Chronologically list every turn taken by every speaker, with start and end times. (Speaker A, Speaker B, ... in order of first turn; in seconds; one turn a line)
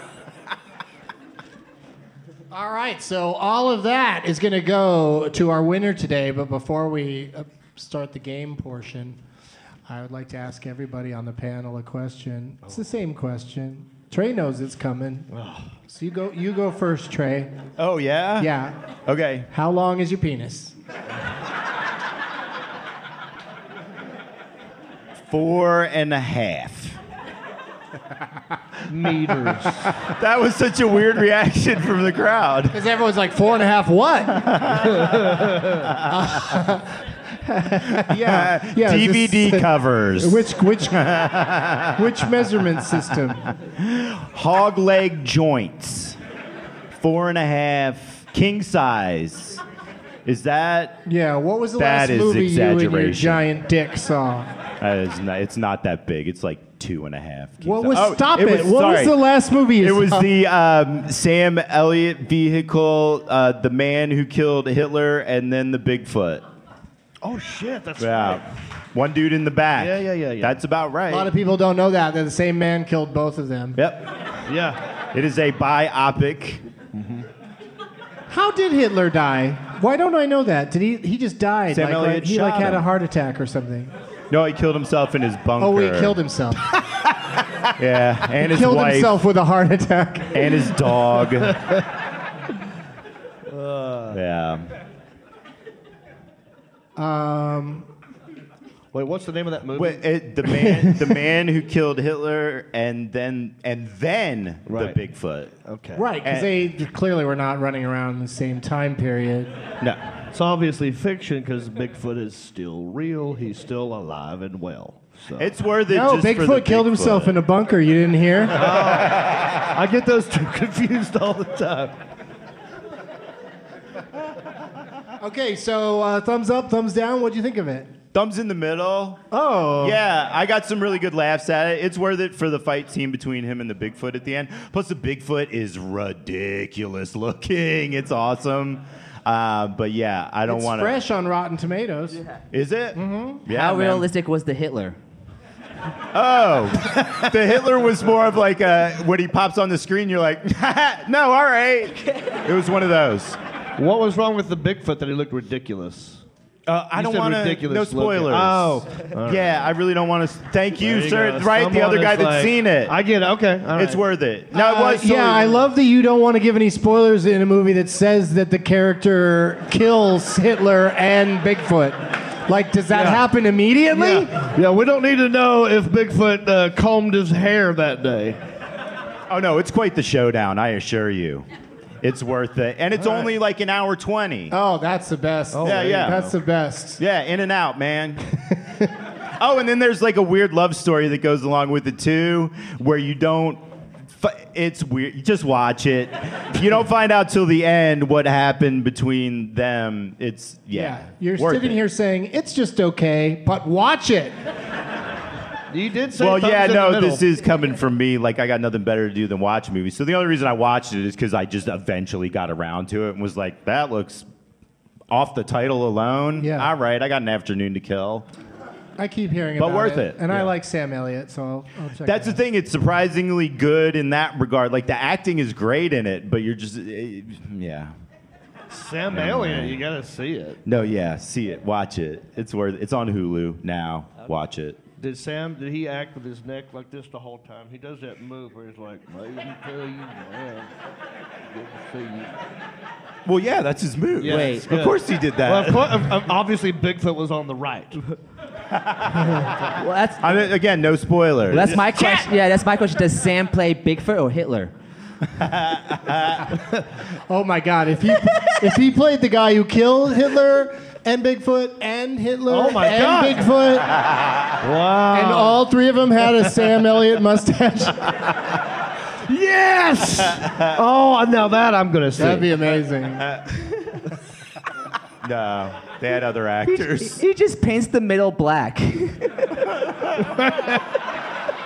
Speaker A: 2.5-9.2
Speaker A: 9.9-15.3
Speaker B: 15.3-15.7
Speaker A: 15.9-17.6
Speaker C: 17.8-18.5
Speaker A: 18.4-18.8
Speaker C: 19.1-19.5
Speaker A: 19.5-20.8
Speaker C: 25.3-27.0
Speaker B: 28.9-29.9
Speaker C: 30.1-32.8
Speaker A: 32.7-34.7
Speaker C: 34.3-35.3
Speaker B: 35.0-35.9
Speaker C: 35.8-36.1
Speaker A: 36.0-41.1
Speaker C: 37.9-42.0
Speaker A: 42.0-43.5
Speaker C: 43.8-46.2
Speaker C: 46.9-49.6
Speaker C: 50.2-51.0
Speaker A: 51.1-54.5
Speaker C: 51.8-53.4
Speaker C: 54.8-59.2
Speaker A: 57.6-60.3
Speaker C: 59.8-66.4
Speaker B: 67.2-68.4
Speaker C: 68.0-71.3
Speaker B: 69.8-70.6
Speaker A: 71.1-73.8
Speaker C: 73.8-74.1
Speaker B: 74.5-74.8
Speaker C: 75.1-76.7
Speaker B: 76.9-77.3
Speaker A: 78.3-83.9
Speaker C: 81.7-82.9
Speaker C: 84.3-86.2
Speaker A: 85.6-86.7
Speaker C: 87.7-89.2
Speaker A: 88.3-90.7
Speaker C: 90.3-91.6
Speaker B: 91.5-91.8
Speaker B: 93.5-94.2
Speaker C: 94.1-94.7
Speaker A: 97.0-97.9
Speaker B: 98.9-100.0
Speaker C: 99.8-105.6
Speaker A: 100.5-101.1
Speaker B: 104.7-105.0
Speaker B: 105.7-106.1
Speaker A: 106.0-109.5
Speaker C: 106.2-106.5
Speaker B: 110.3-115.5
Speaker C: 115.4-117.4
Speaker A: 115.9-118.7
Speaker B: 118.5-121.9
Speaker C: 119.1-119.5
Speaker A: 125.2-127.9
Speaker C: 128.1-129.2
Speaker A: 129.3-130.0
Speaker C: 129.8-140.9
Speaker A: 140.5-142.2
Speaker C: 142.5-144.1
Speaker A: 142.9-143.4
Speaker D: 143.5-145.0
Speaker C: 146.1-153.4
Speaker B: 153.8-156.2
Speaker C: 156.7-163.0
Speaker B: 156.9-159.7
Speaker B: 160.8-164.0
Speaker C: 163.7-165.6
Speaker A: 164.5-174.5
Speaker B: 172.9-173.2
Speaker B: 173.9-178.4
Speaker C: 179.3-181.5
Speaker C: 182.0-184.6
Speaker B: 183.0-183.3
Speaker A: 184.5-187.0
Speaker B: 185.5-186.2
Speaker C: 185.6-186.3
Speaker C: 187.0-188.2
Speaker A: 188.4-188.9
Speaker C: 189.4-193.6
Speaker C: 194.2-201.8
Speaker A: 200.7-204.4
Speaker B: 205.7-207.2
Speaker C: 206.2-214.3
Speaker C: 215.1-218.3
Speaker A: 216.4-216.7
Speaker A: 219.0-222.4
Speaker C: 219.6-220.5
Speaker C: 222.1-227.9
Speaker B: 228.7-230.6
Speaker C: 229.1-229.8
Speaker C: 230.7-234.8
Speaker B: 235.0-240.7
Speaker B: 241.5-242.4
Speaker C: 243.3-246.1
Speaker B: 244.2-248.0
Speaker D: 244.2-244.7
Speaker C: 248.7-249.7
Speaker D: 249.8-250.4
Speaker C: 250.2-252.0
Speaker D: 251.5-254.7
Speaker C: 255.4-256.5
Speaker A: 257.3-264.0
Speaker B: 262.5-263.4
Speaker C: 263.9-264.4
Speaker B: 264.6-265.6
Speaker A: 265.1-268.3
Speaker B: 269.2-272.5
Speaker C: 270.3-270.8
Speaker A: 272.2-273.3
Speaker C: 273.2-273.7
Speaker C: 275.2-277.2
Speaker D: 276.7-279.6
Speaker B: 280.2-280.8